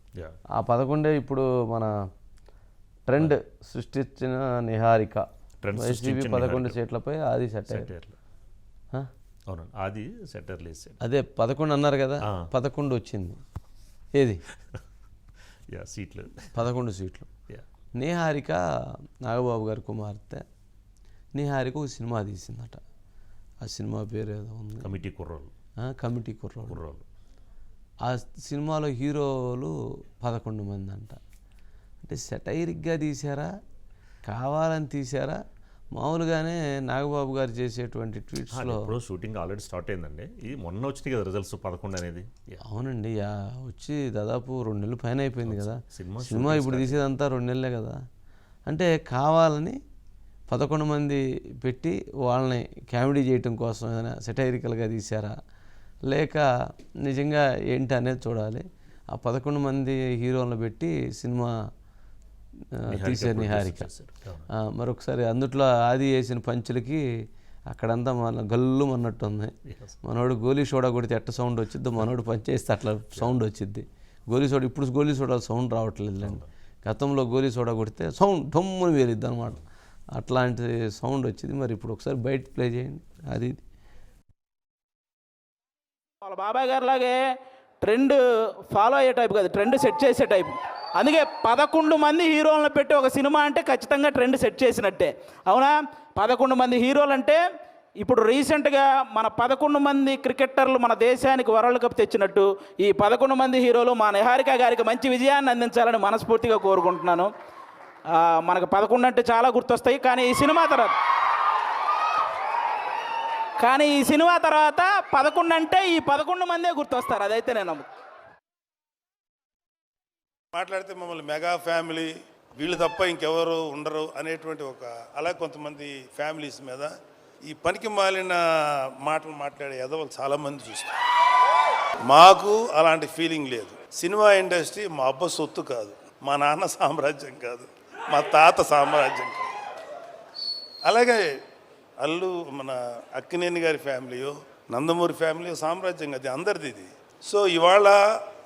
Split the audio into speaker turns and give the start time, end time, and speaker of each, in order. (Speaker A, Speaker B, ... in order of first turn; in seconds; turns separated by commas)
Speaker A: 0.6-1.9, Speaker A: 3.1-7.9, Speaker B: 5.6-6.8, Speaker B: 7.7-8.2, Speaker B: 9.5-11.0, Speaker A: 11.0-13.4, Speaker A: 14.2-14.4, Speaker B: 15.7-16.5, Speaker A: 16.6-17.3, Speaker A: 18.0-18.6, Speaker A: 19.2-20.4, Speaker A: 21.4-22.8, Speaker A: 23.6-24.9, Speaker B: 24.8-25.5, Speaker A: 25.8-26.8, Speaker B: 26.7-27.1, Speaker A: 28.1-31.2, Speaker A: 32.0-33.5, Speaker A: 34.3-35.4, Speaker A: 36.0-38.9, Speaker B: 38.5-42.6, Speaker A: 42.6-48.0, Speaker B: 45.5-47.0, Speaker A: 48.7-49.8, Speaker A: 50.5-55.3, Speaker A: 56.1-56.5, Speaker A: 57.0-61.5, Speaker A: 62.8-63.9, Speaker B: 62.9-64.5, Speaker A: 64.7-67.0, Speaker A: 67.7-79.6, Speaker B: 69.7-70.0, Speaker B: 73.2-73.4, Speaker B: 76.2-76.5, Speaker A: 80.2-83.6, Speaker C: 86.2-87.2, Speaker C: 87.8-97.4, Speaker C: 98.0-107.3, Speaker C: 108.1-111.0, Speaker C: 113.6-117.9, Speaker D: 120.5-127.0, Speaker D: 127.5-128.4, Speaker D: 129.0-130.9, Speaker D: 132.1-139.5, Speaker D: 140.8-141.2, Speaker D: 142.0-148.2